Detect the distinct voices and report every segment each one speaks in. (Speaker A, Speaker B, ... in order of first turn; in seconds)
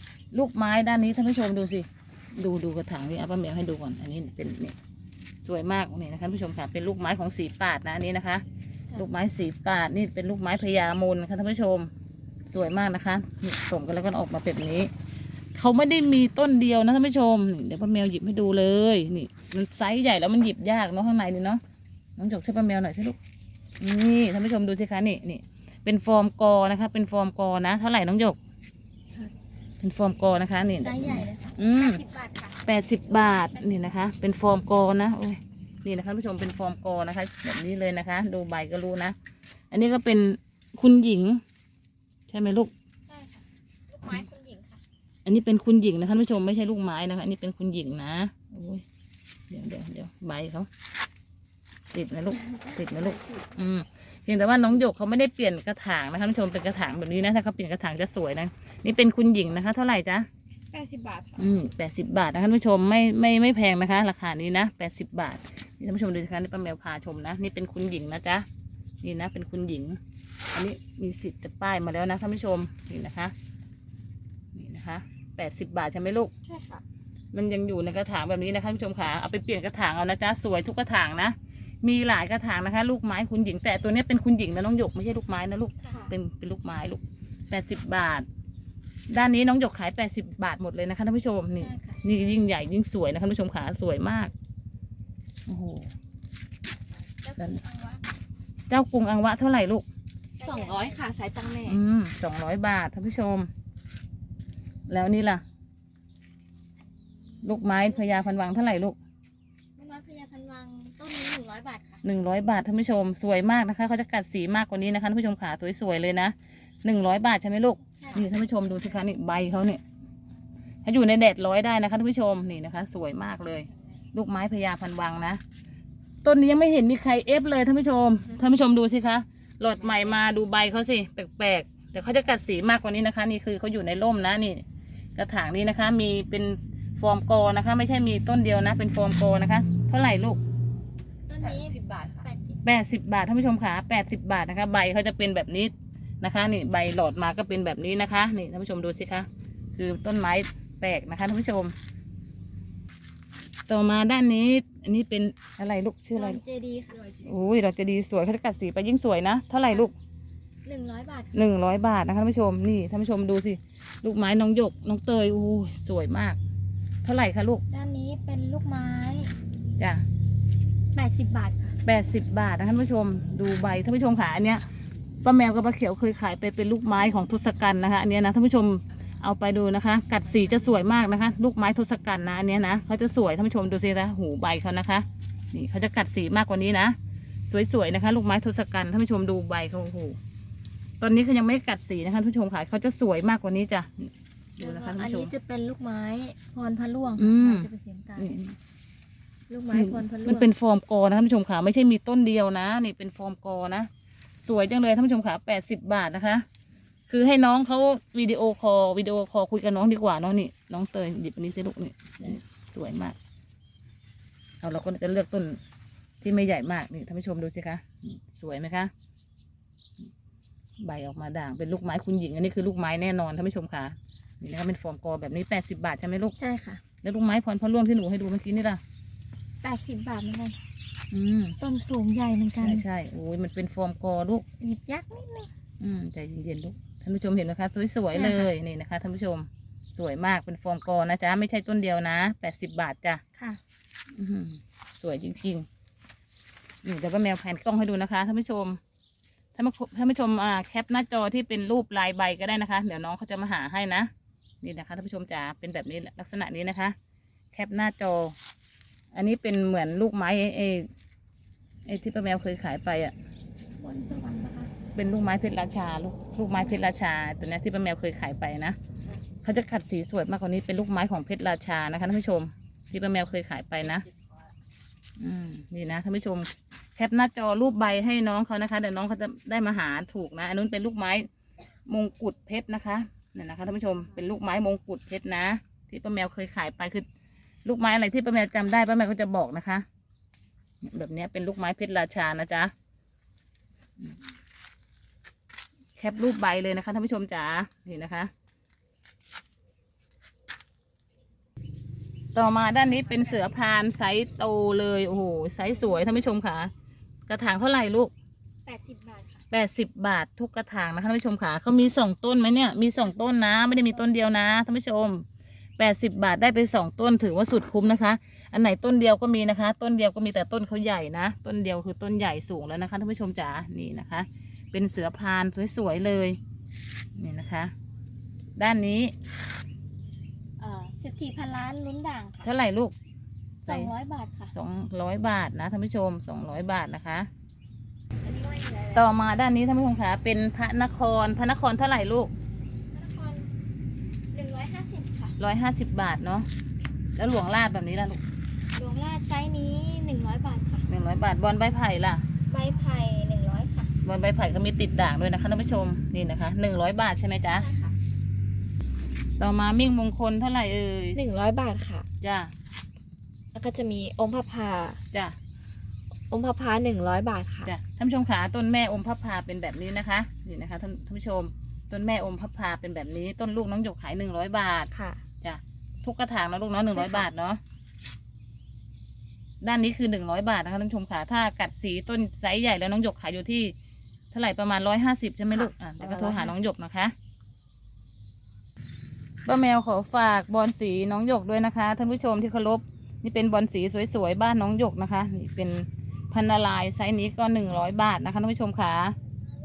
Speaker A: 0.3-4.8, 5.4-8.4, 8.9-11.9, 12.5-14.9, 15.5-21.6, 22.2-23.2, 23.8-28.4, 29.8-32.0, 32.6-39.2, 39.7-41.4, 42.3-42.7, 45.2-48.8, 49.5-50.7, 51.9-60.3, 61.4-68.5, 69.0-70.0, 70.5-73.3, 74.5-76.3, 77.3-88.3, 89.1-94.3, 95.5-95.9, 98.7-99.8, 101.7-103.5, 104.9-105.4, 107.4-109.0, 112.0-119.8, 120.8-125.4, 126.2-140.4, 142.6-151.8, 153.7-156.4, 157.2-159.9, 161.3-166.4, 167.0-167.6, 169.8-170.0, 171.8-174.6, 175.2-187.0, 187.5-190.2, 191.0-195.3, 197.2-198.6, 199.7-203.9, 204.4-206.4, 207.1-213.2, 214.6-215.6, 216.2-218.9, 220.8-226.3, 227.0-228.8, 231.1-231.6, 232.6-234.4, 235.8-243.2, 244.1-245.7, 246.8-248.8, 249.6-254.1, 254.6-256.9, 257.5-258.4, 259.1-260.9, 261.9-263.1, 264.9-268.8, 269.4-274.1, 275.2-281.3, 281.9-287.1, 287.6-289.9, 290.8-292.7, 296.0-298.3, 302.4-306.7, 307.3-308.1, 309.5-315.2, 315.8-326.4, 327.2-327.7, 328.6-329.1, 332.4-332.9, 333.7-333.9, 334.5-337.3, 338.9-342.3, 345.4-346.5, 347.1-348.2, 350.9-352.2, 354.0-357.7, 359.4-361.2, 362.2-362.5, 367.6-374.9, 375.4-377.6, 379.6-383.7, 384.3-387.1, 389.5-399.2
Speaker B: 30.8-34.0, 43.1-44.8, 85.8-86.1, 91.6-92.0, 97.2-98.1, 100.3-101.0, 107.3-108.4, 109.8-112.0, 118.0-118.3, 141.3-142.6, 156.2-157.2, 160.7-161.4, 167.7-169.3, 170.9-171.8, 194.6-198.3, 199.5-200.5, 226.4-226.8, 229.6-230.6, 231.6-232.8, 234.6-235.5, 238.1-238.5, 263.8-264.7, 308.7-309.4, 330.6-332.5, 333.6-334.5, 338.2-339.1, 342.9-343.5, 344.3-345.4, 348.8-350.9, 352.5-353.9, 357.6-357.9
Speaker C: 60.7-61.6, 76.5-76.8, 85.9-86.1, 100.4-101.8, 141.4-142.3, 361.1-362.1, 363.5-365.0, 366.3-367.7, 374.9-375.2, 376.9-377.3, 385.5-386.6